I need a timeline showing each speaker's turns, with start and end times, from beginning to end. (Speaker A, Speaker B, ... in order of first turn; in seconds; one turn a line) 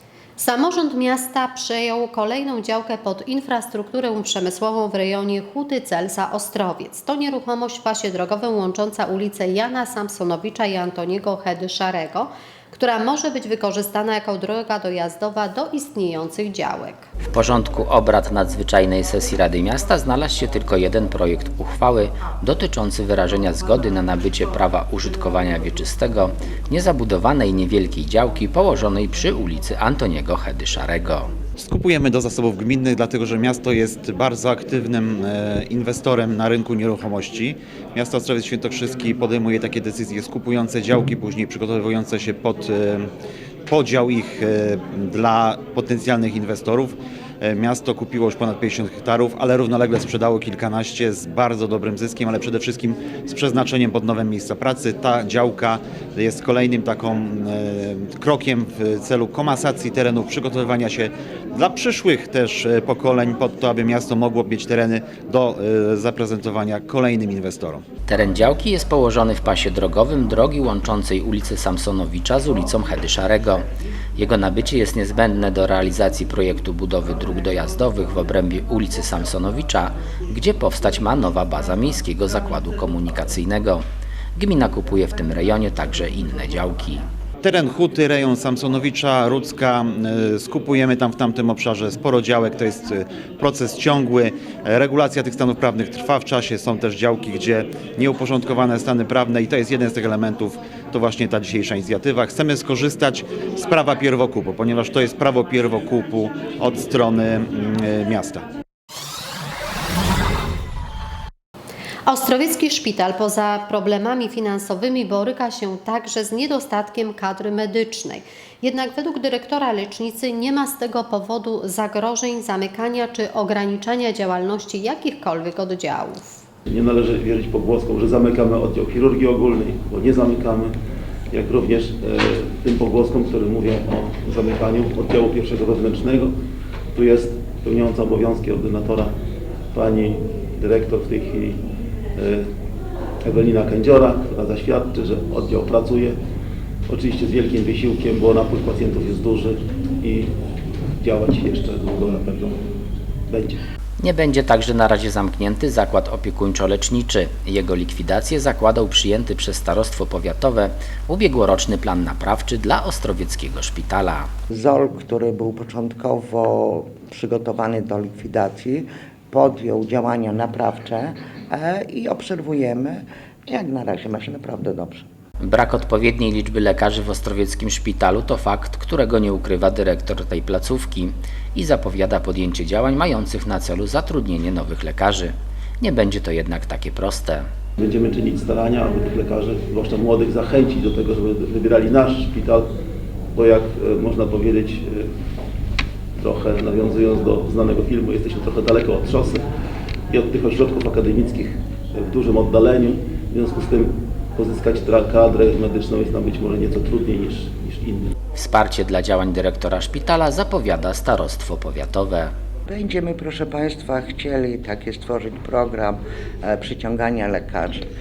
Speaker A: 0.4-17.1
Speaker B: 17.3-31.3
Speaker C: 31.6-43.1
Speaker C: 43.7-67.8
Speaker B: 68.1-83.8
Speaker B: 84.4-87.1
Speaker C: 87.4-108.5
Speaker A: 112.1-126.4
Speaker D: 126.7-130.7
Speaker D: 131.3-136.3
Speaker D: 136.9-139.1
Speaker D: 139.7-141.6
Speaker D: 142.2-142.5
Speaker D: 143.2-146.2
Speaker D: 146.9-150.3
Speaker D: 151.0-152.7
Speaker D: 153.3-153.6
Speaker B: 154.0-164.3
Speaker E: 164.5-175.1
Speaker B: 175.4-187.5
Speaker D: 187.8-192.7
Speaker D: 193.3-195.1
Speaker D: 196.2-199.5
Speaker D: 200.1-208.1
Speaker B: 208.4-212.3
Speaker E: 212.7-217.8